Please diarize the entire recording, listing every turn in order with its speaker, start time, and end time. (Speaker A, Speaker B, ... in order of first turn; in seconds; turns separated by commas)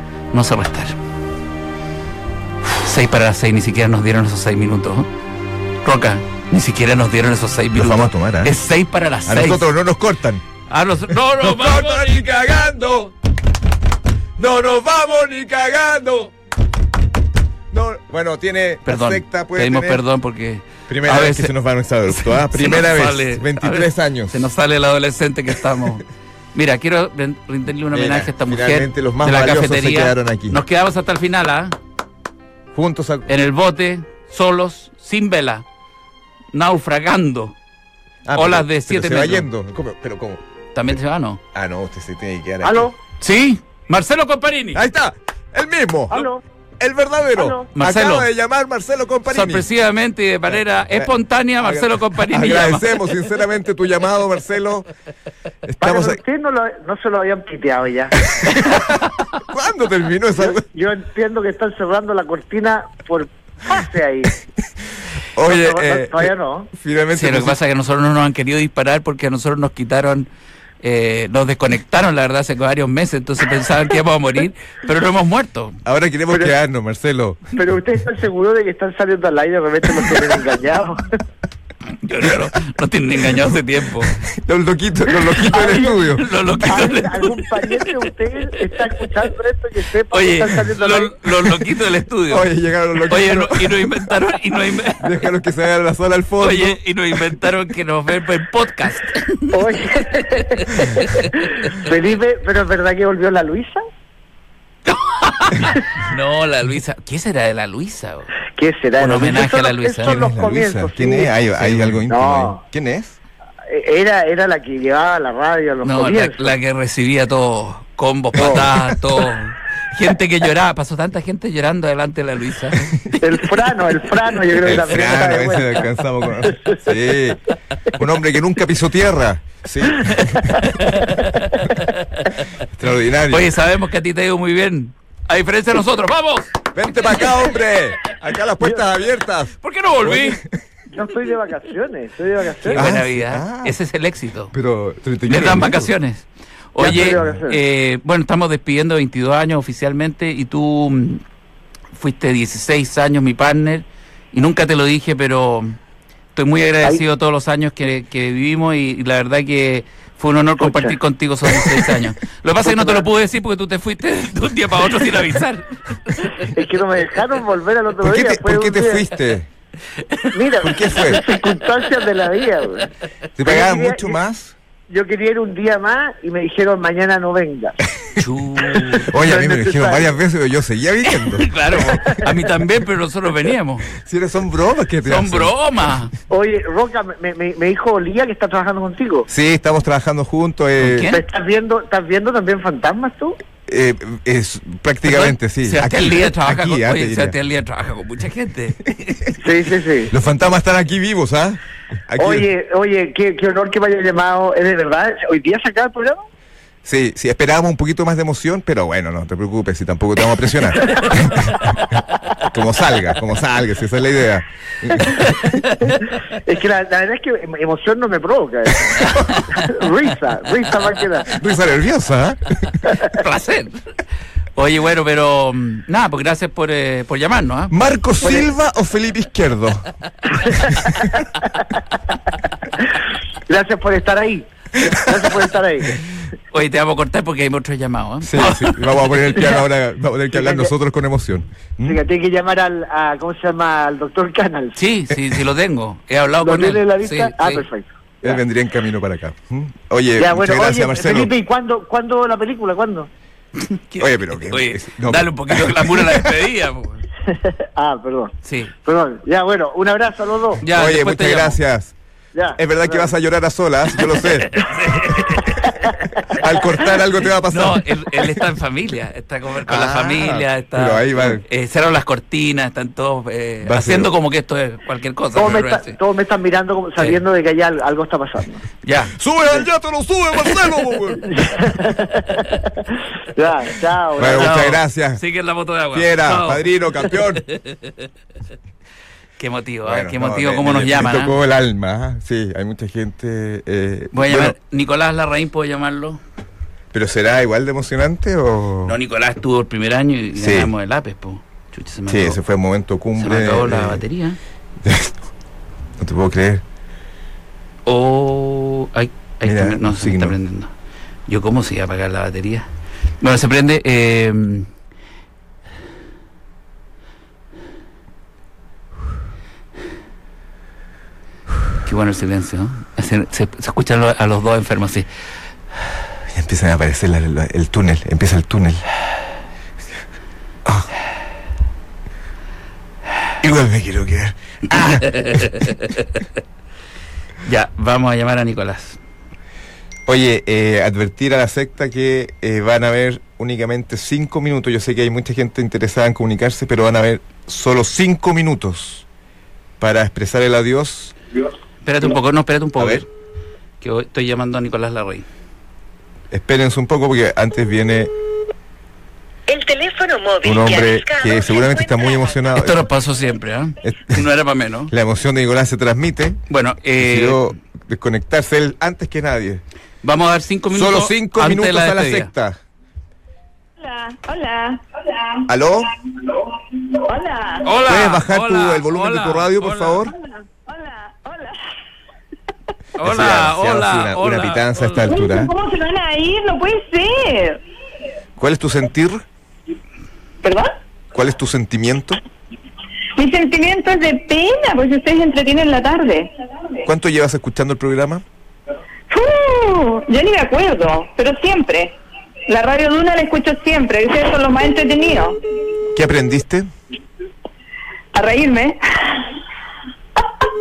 Speaker A: 0.3-1.0, Speaker A: 2.7-5.1, Speaker A: 5.8-9.7, Speaker B: 7.7-8.6, Speaker B: 9.2-10.4, Speaker A: 10.7-12.2, Speaker B: 11.1-13.1, Speaker B: 14.4-16.3, Speaker B: 17.7-20.0, Speaker A: 18.9-21.5, Speaker B: 20.9-24.4, Speaker A: 22.1-26.0, Speaker A: 26.5-31.8, Speaker B: 27.9-30.6, Speaker B: 32.7-33.3, Speaker A: 33.3-35.6, Speaker A: 36.5-37.5, Speaker B: 38.2-40.4, Speaker A: 38.3-39.5, Speaker A: 40.7-41.4, Speaker B: 41.5-42.9, Speaker C: 42.6-43.0, Speaker A: 43.2-44.8, Speaker B: 44.7-49.7, Speaker C: 46.1-46.4, Speaker C: 47.4-47.6, Speaker A: 47.7-48.3, Speaker A: 49.3-53.0, Speaker B: 50.5-54.9, Speaker B: 55.6-56.2, Speaker C: 55.8-58.3, Speaker B: 58.3-60.6, Speaker C: 60.4-64.3, Speaker B: 65.3-67.6, Speaker C: 65.4-66.7, Speaker A: 67.1-70.3, Speaker A: 70.8-75.8, Speaker B: 75.8-77.5, Speaker C: 77.5-81.1, Speaker A: 82.0-84.2, Speaker B: 84.0-86.5, Speaker C: 85.4-86.1, Speaker A: 86.1-88.0, Speaker C: 86.6-91.3, Speaker A: 90.1-92.5, Speaker B: 92.3-94.1, Speaker A: 93.1-95.1, Speaker B: 94.9-97.3, Speaker A: 96.4-99.6, Speaker C: 99.5-103.8, Speaker A: 100.3-101.3, Speaker A: 104.9-108.3, Speaker C: 108.5-111.4, Speaker A: 109.0-110.2, Speaker B: 110.0-113.2, Speaker A: 111.6-112.0, Speaker C: 112.1-112.6, Speaker C: 113.7-116.6, Speaker A: 115.8-123.1, Speaker C: 118.4-118.7, Speaker B: 118.4-118.7, Speaker C: 123.2-125.9, Speaker B: 124.6-127.4, Speaker C: 126.5-126.7, Speaker B: 127.9-130.6, Speaker A: 130.6-132.4, Speaker B: 132.6-133.5, Speaker A: 133.3-137.3, Speaker B: 136.7-140.5, Speaker A: 139.6-140.4, Speaker C: 140.9-142.9, Speaker A: 142.6-144.5, Speaker B: 142.7-143.8, Speaker B: 144.5-145.9, Speaker A: 145.3-151.2, Speaker C: 146.8-147.6, Speaker B: 146.8-147.4, Speaker A: 151.9-155.8, Speaker A: 156.3-166.3, Speaker C: 160.6-161.0, Speaker C: 162.6-163.1, Speaker C: 166.4-169.1, Speaker B: 168.0-169.5, Speaker C: 170.3-172.9, Speaker B: 170.6-171.2, Speaker B: 173.3-174.5, Speaker C: 173.4-174.2, Speaker C: 174.9-177.8, Speaker A: 178.2-179.1, Speaker C: 178.8-180.1, Speaker B: 179.0-181.9, Speaker A: 181.1-183.9, Speaker C: 181.8-182.2, Speaker B: 183.9-185.5, Speaker A: 185.0-186.1, Speaker C: 186.3-189.3, Speaker B: 189.3-191.1, Speaker A: 190.8-191.2, Speaker C: 191.0-193.4, Speaker B: 193.7-197.3, Speaker A: 195.1-199.3, Speaker C: 199.4-200.1, Speaker B: 200.1-202.5, Speaker C: 202.2-206.3, Speaker B: 206.8-211.8, Speaker C: 210.9-211.5, Speaker B: 212.4-215.5, Speaker A: 215.4-216.0, Speaker C: 215.8-221.3, Speaker B: 221.3-222.8, Speaker A: 223.1-223.8, Speaker A: 224.6-227.7, Speaker B: 227.7-229.9, Speaker C: 230.4-231.2, Speaker B: 230.7-231.1, Speaker C: 233.5-236.0, Speaker A: 236.5-239.5, Speaker B: 238.2-242.0, Speaker C: 240.3-240.7, Speaker C: 241.8-244.8, Speaker A: 244.8-247.6, Speaker C: 246.4-248.4, Speaker B: 248.2-251.3, Speaker C: 250.2-253.1, Speaker A: 253.6-257.1, Speaker B: 254.0-256.3, Speaker C: 257.3-258.3, Speaker A: 258.4-258.7, Speaker C: 258.8-260.6, Speaker A: 260.6-261.6, Speaker B: 260.6-261.9, Speaker C: 262.3-263.1, Speaker B: 262.5-265.3, Speaker A: 264.2-265.6, Speaker B: 266.2-268.3, Speaker A: 267.5-275.9, Speaker B: 269.6-271.4, Speaker B: 273.6-274.1, Speaker C: 275.3-278.6, Speaker A: 278.8-279.1, Speaker B: 279.1-281.7, Speaker C: 281.3-284.6, Speaker B: 284.1-285.2, Speaker A: 284.2-287.9, Speaker B: 285.9-287.4, Speaker A: 289.4-291.4, Speaker B: 289.8-294.6, Speaker A: 294.1-296.2, Speaker B: 296.9-299.0, Speaker A: 298.8-302.4, Speaker B: 300.3-300.7, Speaker B: 302.1-304.0, Speaker A: 303.2-304.4, Speaker B: 304.8-305.2, Speaker B: 306.0-306.6, Speaker A: 307.9-310.7, Speaker B: 309.4-310.4, Speaker A: 311.3-312.7, Speaker A: 313.2-314.7, Speaker A: 321.8-325.1, Speaker B: 326.3-328.8, Speaker B: 333.4-335.6, Speaker A: 334.8-336.0, Speaker A: 337.4-339.0, Speaker B: 340.1-349.0, Speaker B: 349.8-351.1, Speaker A: 351.8-353.1, Speaker B: 352.8-353.0, Speaker A: 353.8-355.3, Speaker B: 356.3-358.1, Speaker D: 359.5-362.3, Speaker B: 360.4-362.8, Speaker A: 362.5-364.9, Speaker B: 363.8-364.2, Speaker B: 364.9-366.4, Speaker A: 366.5-367.5, Speaker B: 367.0-369.6, Speaker A: 370.0-372.3, Speaker B: 370.7-372.6, Speaker E: 373.8-375.4, Speaker B: 375.5-375.9, Speaker E: 376.5-377.7, Speaker A: 377.6-380.1, Speaker B: 377.8-380.1, Speaker E: 380.2-381.6, Speaker A: 383.0-385.1, Speaker B: 383.0-385.5, Speaker E: 385.1-387.6, Speaker B: 388.4-389.2, Speaker E: 390.4-390.7, Speaker B: 391.1-392.2, Speaker E: 393.1-396.3, Speaker B: 396.8-398.2, Speaker E: 399.1-405.4, Speaker B: 405.9-406.7, Speaker E: 408.1-409.3